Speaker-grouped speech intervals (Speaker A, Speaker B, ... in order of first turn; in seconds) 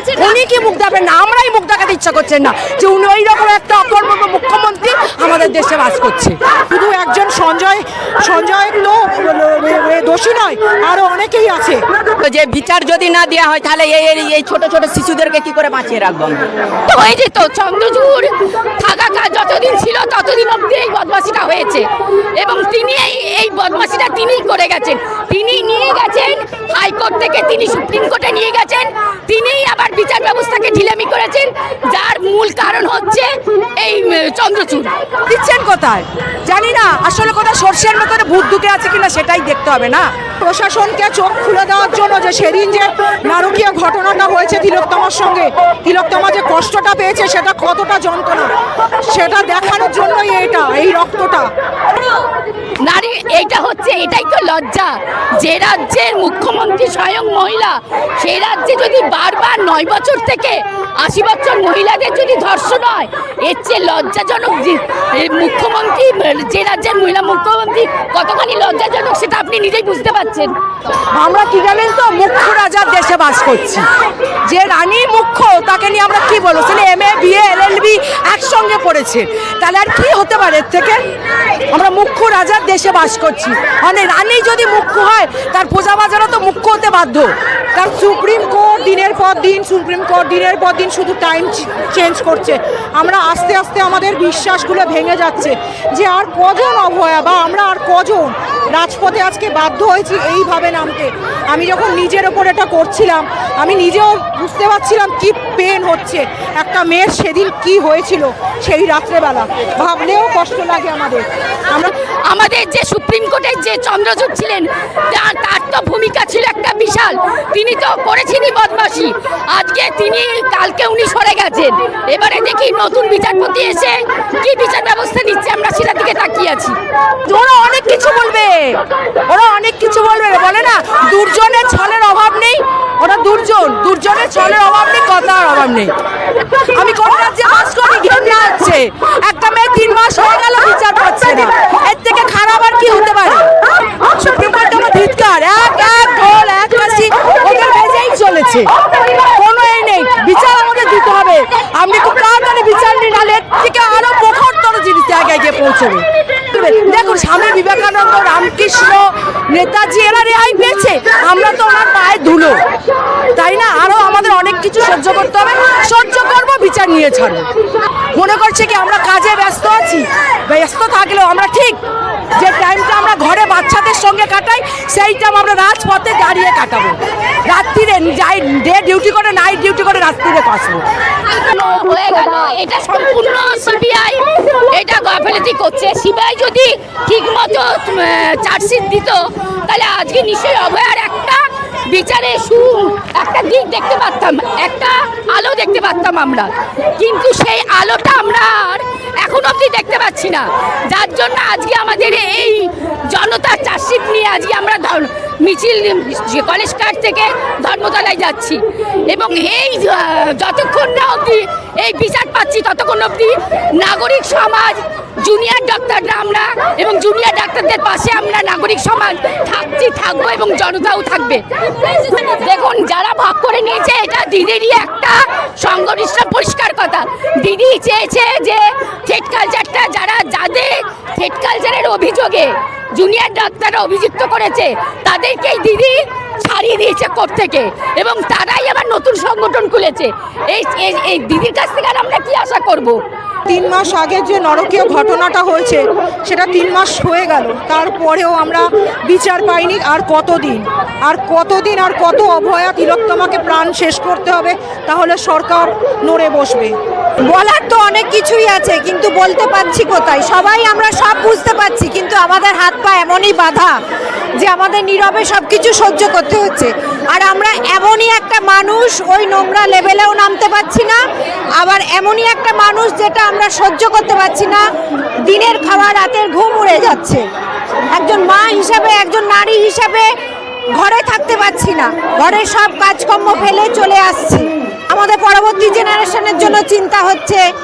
Speaker A: 0.2-6.4, 35.3-40.1, 71.1-73.9, 74.5-81.0, 81.7-87.3, 127.3-135.9, 136.8-143.5, 144.1-148.7, 149.3-162.6, 163.4-167.5, 168.2-171.8, 172.4-180.8
Speaker B: 6.7-11.8, 40.4-48.5, 49.1-51.5, 87.8-111.8, 243.5-256.8
Speaker C: 12.2-16.4
Speaker D: 16.9-21.9, 22.4-35.0, 52.8-70.5, 111.7-126.8, 181.2-243.0
Speaker E: 257.3-263.8, 264.4-271.0, 271.6-274.6, 275.3-277.2, 277.9-280.1, 280.8-287.4